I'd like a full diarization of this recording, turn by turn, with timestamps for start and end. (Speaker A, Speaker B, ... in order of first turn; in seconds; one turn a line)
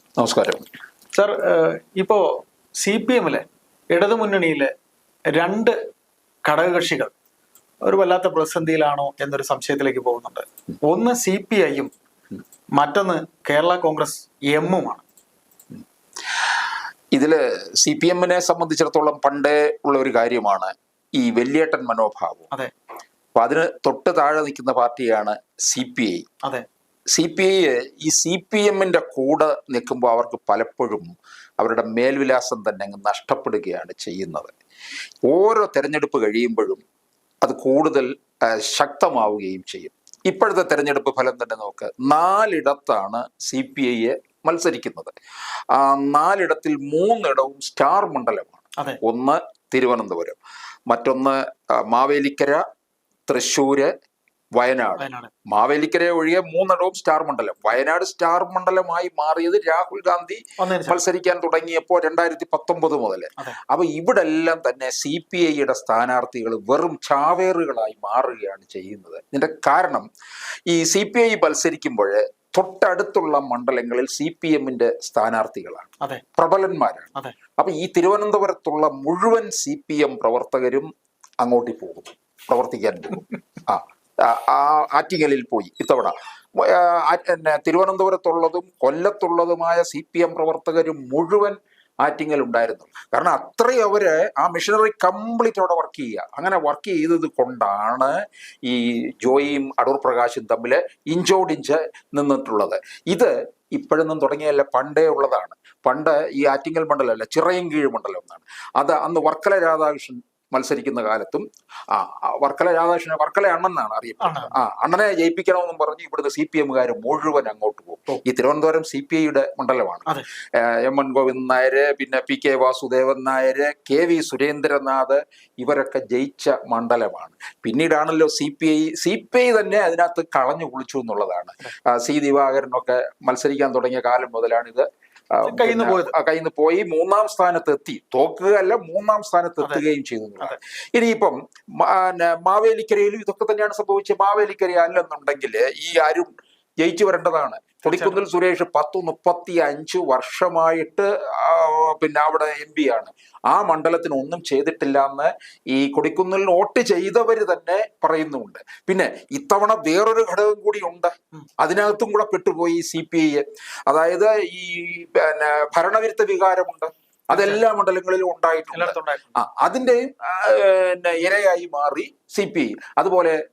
Speaker A: 0.2-0.6
Speaker B: 1.1-2.2
Speaker B: 2.8-4.7
Speaker B: 5.4-5.8
Speaker B: 6.5-7.1
Speaker B: 7.9-11.9
Speaker B: 12.8-15.0
Speaker A: 16.4-16.6
Speaker A: 17.1-22.5
Speaker A: 23.4-26.3
Speaker A: 27.1-34.5
Speaker A: 35.3-36.8
Speaker A: 37.4-45.1
Speaker A: 45.7-50.4
Speaker A: 50.9-52.6
Speaker A: 53.3-53.9
Speaker A: 54.6-70.1
Speaker B: 55.0-55.3
Speaker B: 60.6-61.0
Speaker A: 70.7-80.9
Speaker A: 81.4-98.1
Speaker A: 98.7-146.3
Speaker B: 114.2-114.5
Speaker B: 135.4-136.1
Speaker A: 146.8-173.4
Speaker B: 147.8-148.2
Speaker B: 167.3-167.6
Speaker B: 168.7-169.4